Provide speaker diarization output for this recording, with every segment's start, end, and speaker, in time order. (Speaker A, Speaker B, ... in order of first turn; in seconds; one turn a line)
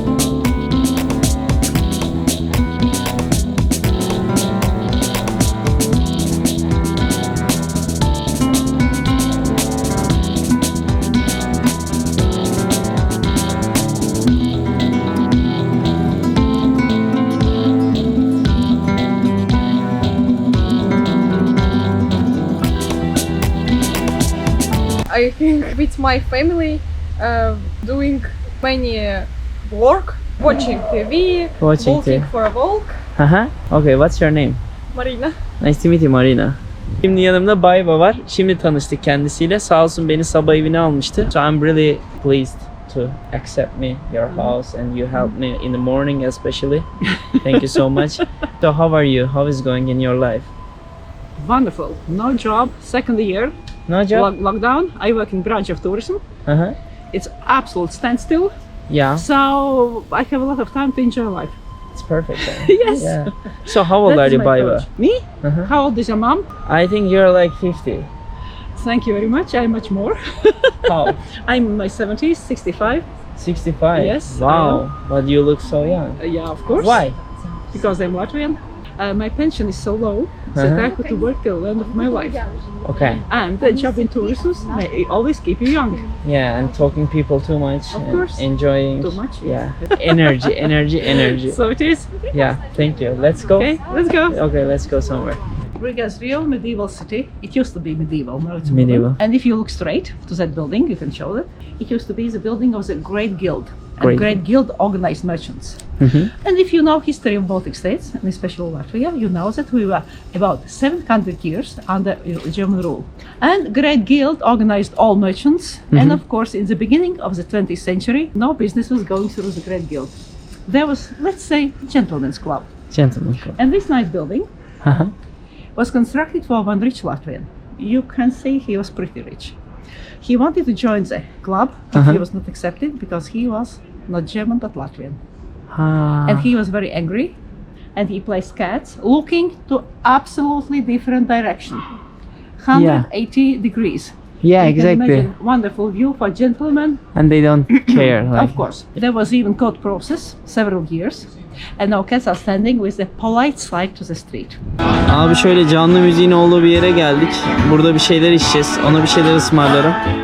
Speaker A: 25.1-33.0
Speaker B: 31.6-32.3
Speaker B: 33.1-34.6
Speaker A: 34.9-35.4
Speaker B: 35.6-50.5
Speaker C: 47.5-47.8
Speaker C: 51.4-53.5
Speaker B: 53.9-54.3
Speaker C: 54.1-56.2
Speaker B: 56.5-56.8
Speaker C: 57.1-58.5
Speaker B: 58.9-59.3
Speaker C: 59.1-61.5
Speaker B: 61.9-64.9
Speaker C: 62.4-66.5
Speaker B: 65.4-65.7
Speaker B: 66.6-68.1
Speaker C: 68.7-73.0
Speaker B: 70.8-71.2
Speaker B: 73.4-76.2
Speaker C: 73.9-74.9
Speaker C: 76.2-77.1
Speaker B: 76.7-77.2
Speaker C: 77.7-82.4
Speaker B: 80.5-80.9
Speaker B: 82.8-83.2
Speaker C: 83.3-86.1
Speaker B: 86.2-91.6
Speaker C: 87.9-92.3
Speaker B: 92.3-93.8
Speaker C: 93.5-94.4
Speaker B: 94.3-95.4
Speaker C: 95.8-105.8
Speaker B: 98.6-99.2
Speaker B: 104.0-104.4
Speaker B: 106.0-106.3
Speaker C: 106.3-120.1
Speaker B: 115.9-116.2
Speaker C: 120.7-122.7
Speaker B: 122.9-123.6
Speaker C: 123.6-124.5
Speaker B: 124.8-125.1
Speaker C: 125.7-129.6
Speaker C: 130.2-135.2
Speaker B: 131.9-132.2
Speaker B: 135.7-136.5
Speaker C: 136.2-137.3
Speaker C: 137.9-141.9
Speaker C: 142.6-147.0
Speaker B: 142.7-143.1
Speaker B: 144.4-145.3
Speaker B: 147.1-148.6
Speaker C: 147.8-154.6
Speaker B: 155.1-160.0